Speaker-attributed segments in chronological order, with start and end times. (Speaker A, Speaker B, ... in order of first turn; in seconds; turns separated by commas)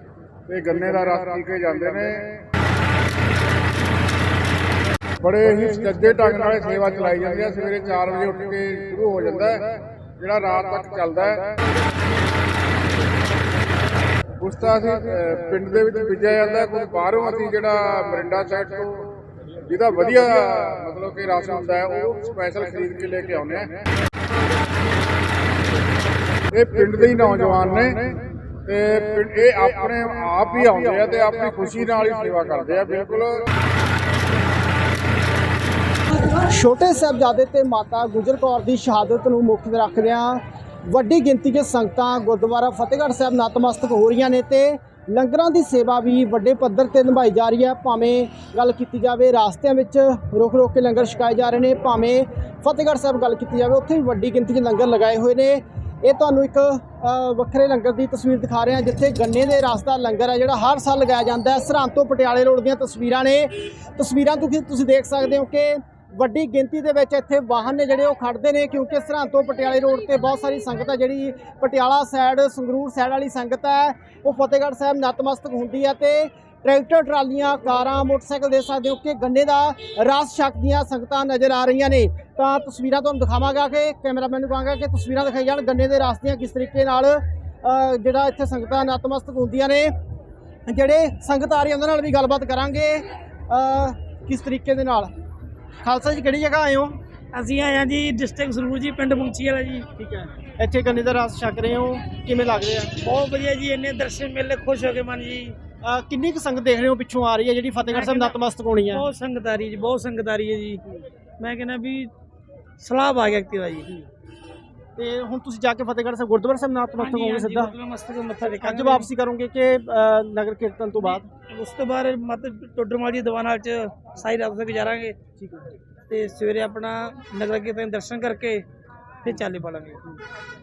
Speaker A: 0.5-2.4, Speaker A: 5.2-11.6, Speaker A: 14.4-23.8, Speaker A: 26.5-33.5, Speaker B: 36.3-89.9, Speaker B: 90.7-95.1, Speaker B: 95.8-97.0, Speaker C: 97.3-99.9, Speaker B: 100.0-103.0, Speaker C: 103.0-105.6, Speaker B: 105.8-109.1, Speaker C: 107.9-110.8, Speaker C: 111.4-112.1, Speaker C: 112.8-114.0, Speaker B: 115.0-117.7, Speaker C: 117.0-119.1, Speaker B: 118.5-121.3, Speaker C: 121.0-125.2, Speaker C: 126.1-128.7, Speaker C: 129.2-130.1